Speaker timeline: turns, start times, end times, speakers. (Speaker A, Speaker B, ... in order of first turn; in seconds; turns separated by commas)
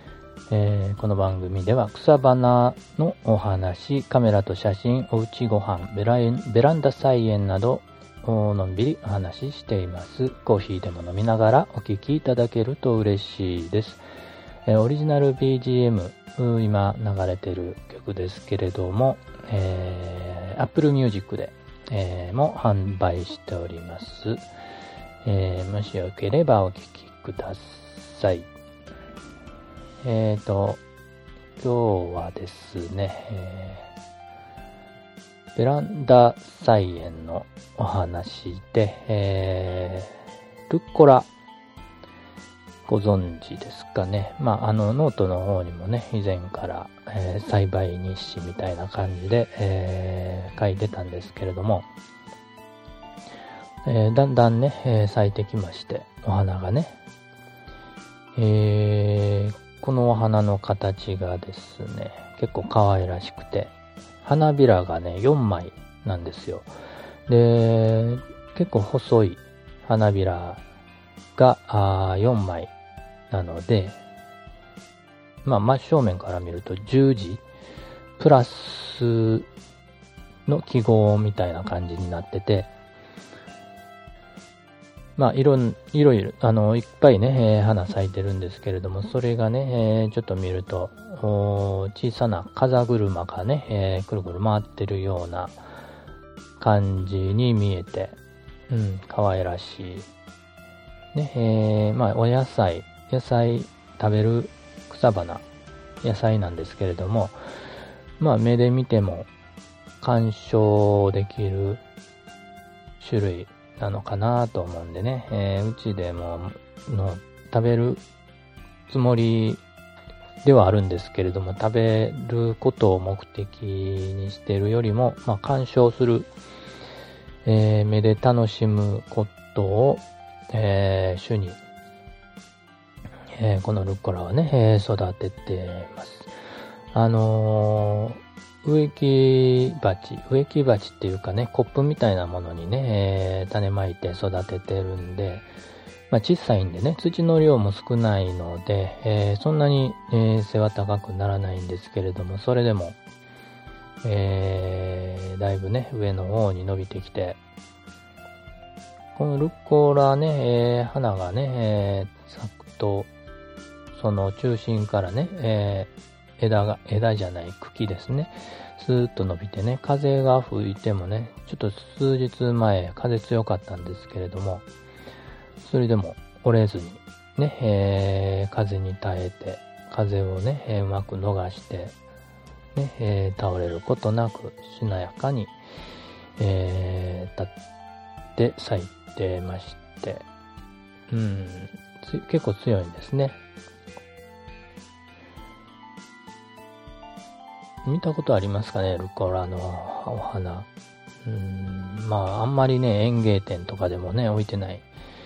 Speaker A: 0.5-14.0, Speaker A: 14.7-24.4, Speaker A: 25.2-28.5, Speaker A: 30.0-30.8, Speaker A: 31.6-33.9, Speaker A: 35.5-40.2, Speaker A: 40.7-41.3, Speaker A: 42.9-51.9, Speaker A: 53.8-57.0, Speaker A: 58.3-66.7, Speaker A: 67.3-70.6, Speaker A: 71.3-72.7, Speaker A: 73.3-74.0, Speaker A: 75.4-77.4, Speaker A: 78.2-79.5, Speaker A: 80.5-82.7, Speaker A: 85.2-95.6, Speaker A: 96.6-98.2, Speaker A: 98.7-100.1, Speaker A: 101.1-105.4, Speaker A: 106.0-107.3, Speaker A: 108.2-109.3, Speaker A: 110.0-111.8, Speaker A: 113.0-118.0, Speaker A: 118.9-119.6, Speaker A: 120.4-126.3, Speaker A: 127.4-131.6, Speaker A: 133.3-136.3, Speaker A: 136.9-145.5, Speaker A: 146.1-153.0, Speaker A: 154.0-157.4, Speaker A: 159.1-163.1, Speaker A: 163.9-174.6, Speaker A: 175.6-181.9, Speaker A: 182.7-185.6, Speaker A: 186.4-187.5, Speaker A: 188.4-190.2, Speaker A: 191.1-193.4, Speaker A: 197.8-200.7, Speaker A: 201.2-204.8